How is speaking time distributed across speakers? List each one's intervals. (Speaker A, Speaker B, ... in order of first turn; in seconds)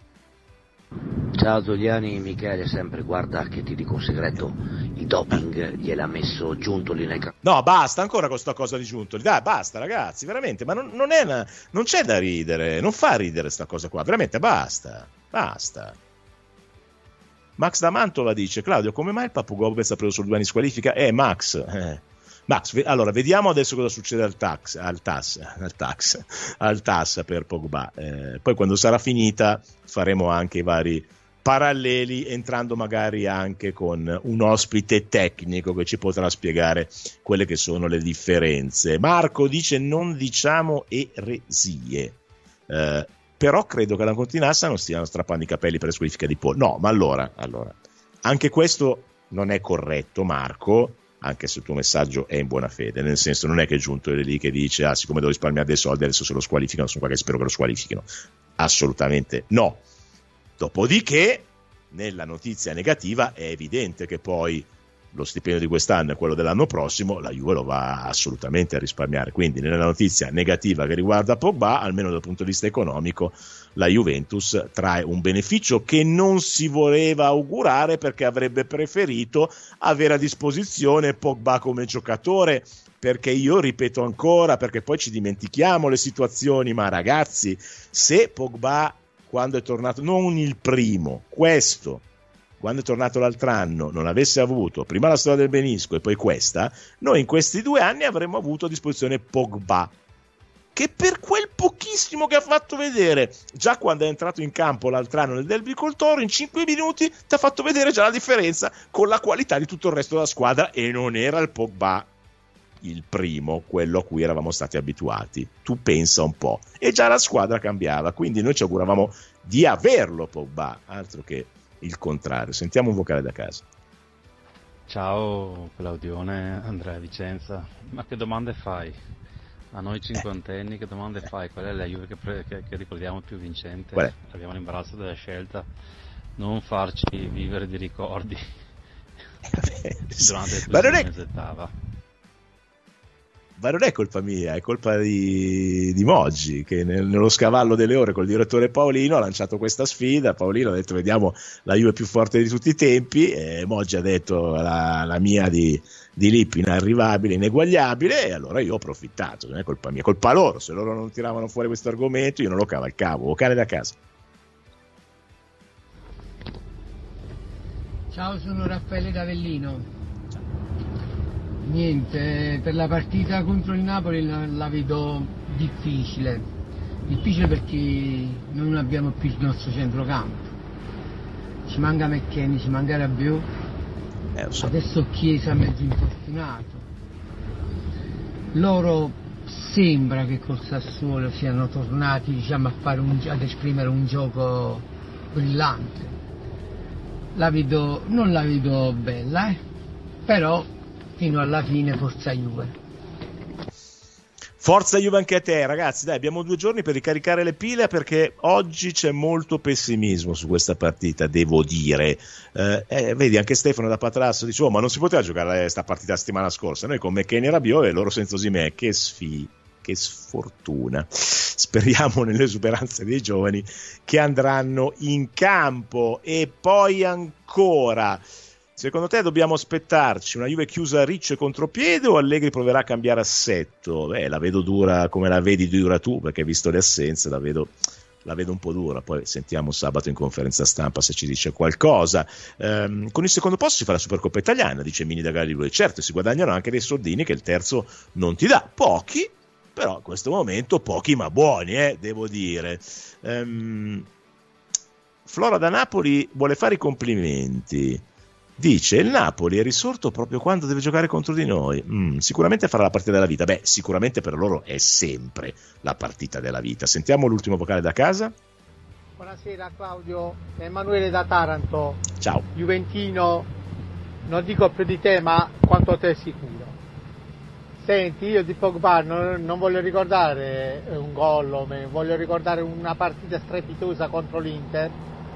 Speaker A: 1.3-7.3
Speaker B: 7.4-16.0, 17.6-42.2, 42.7-59.8, 60.6-92.0, 92.6-99.9, 100.8-112.1, 112.8-123.6, 139.5-141.1, 143.6-164.0, 184.3-184.7, 204.6-228.2, 228.8-254.1, 255.3-258.0, 258.6-268.3, 272.2-272.4
Speaker C: 124.9-129.0, 129.7-135.7, 136.4-138.4, 140.1-141.7
Speaker D: 168.1-169.9, 171.6-176.5, 177.1-180.5, 181.7-183.5, 184.6-186.9, 188.5-196.2, 197.3-199.6, 200.3-202.7
Speaker E: 269.2-273.5, 274.3-276.8, 277.8-285.0